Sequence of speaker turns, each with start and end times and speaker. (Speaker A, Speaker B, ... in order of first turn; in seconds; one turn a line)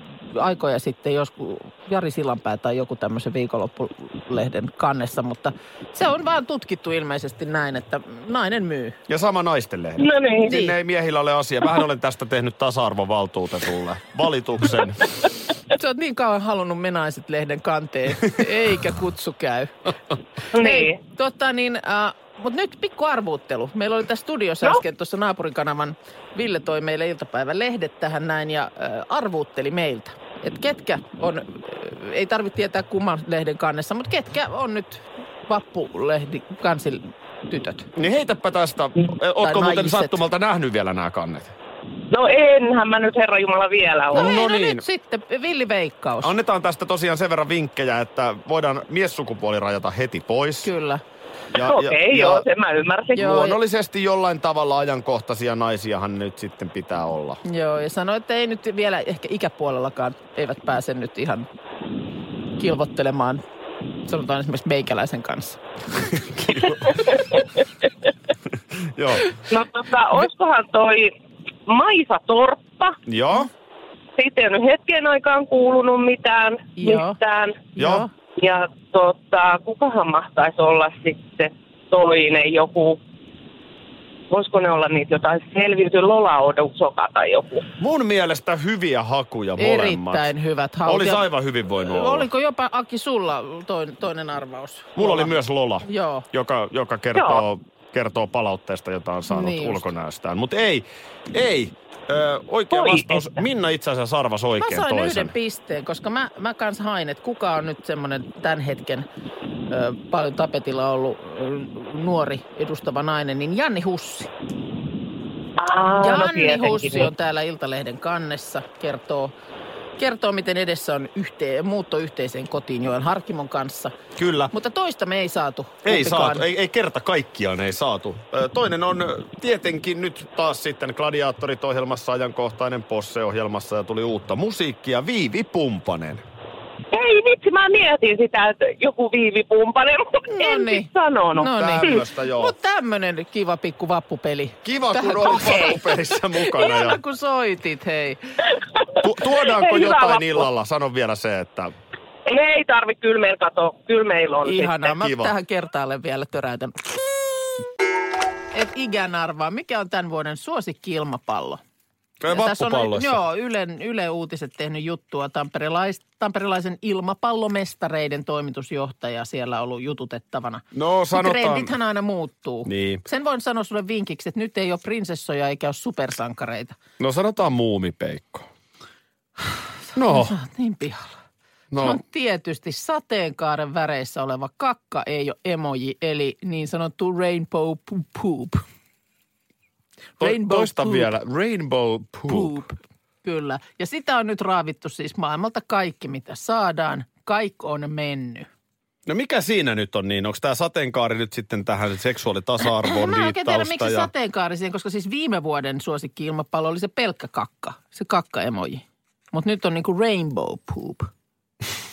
Speaker A: 0.3-9.0
Speaker B: 9.1-15.1
Speaker C: 10.0-10.5
Speaker A: 10.5-10.8
Speaker A: 15.7-19.8
Speaker A: 20.5-37.9
Speaker C: 20.6-21.0
Speaker B: 38.0-41.5
Speaker A: 39.4-40.2
Speaker C: 42.1-44.3
Speaker B: 44.1-44.9
Speaker A: 44.1-46.3
Speaker B: 46.2-50.7
Speaker A: 50.6-51.0
Speaker B: 51.5-52.5
Speaker C: 51.6-53.4
Speaker A: 53.1-53.5
Speaker B: 53.2-57.4
Speaker A: 57.5-61.5
Speaker A: 62.6-63.4
Speaker A: 64.0-65.6
Speaker B: 66.3-67.0
Speaker B: 68.8-69.4
Speaker C: 69.5-71.1
Speaker C: 71.7-73.0
Speaker B: 73.1-73.5
Speaker C: 74.2-77.6
Speaker A: 76.8-77.2
Speaker A: 77.8-78.1
Speaker B: 77.8-78.1
Speaker C: 78.4-83.0
Speaker C: 84.3-87.7
Speaker B: 87.8-90.3
Speaker A: 89.6-96.3
Speaker B: 90.9-92.3
Speaker B: 95.0-105.3
Speaker C: 97.2-97.4
Speaker A: 99.3-99.9
Speaker C: 102.7-103.4
Speaker A: 104.6-109.1
Speaker A: 109.7-114.3
Speaker C: 115.6-117.1
Speaker A: 116.0-119.3
Speaker A: 120.0-123.9
Speaker B: 124.2-124.5
Speaker A: 124.5-126.5
Speaker B: 125.8-136.2
Speaker C: 136.9-141.9
Speaker A: 140.3-145.8
Speaker B: 141.4-142.5
Speaker B: 144.6-147.0
Speaker C: 145.4-145.7
Speaker A: 146.4-148.2
Speaker B: 149.0-151.7
Speaker C: 149.3-150.5
Speaker C: 152.3-154.7
Speaker A: 154.4-156.7
Speaker B: 154.9-155.3
Speaker A: 158.5-161.6
Speaker B: 162.2-163.2
Speaker A: 162.3-176.8
Speaker B: 170.7-171.7
Speaker B: 172.7-173.0
Speaker B: 177.0-178.5
Speaker B: 180.0-180.3
Speaker A: 180.1-181.2
Speaker B: 181.7-182.0
Speaker A: 181.8-188.6
Speaker A: 190.2-191.1
Speaker B: 190.2-192.6
Speaker A: 192.3-198.5
Speaker B: 199.1-204.1
Speaker A: 202.8-211.1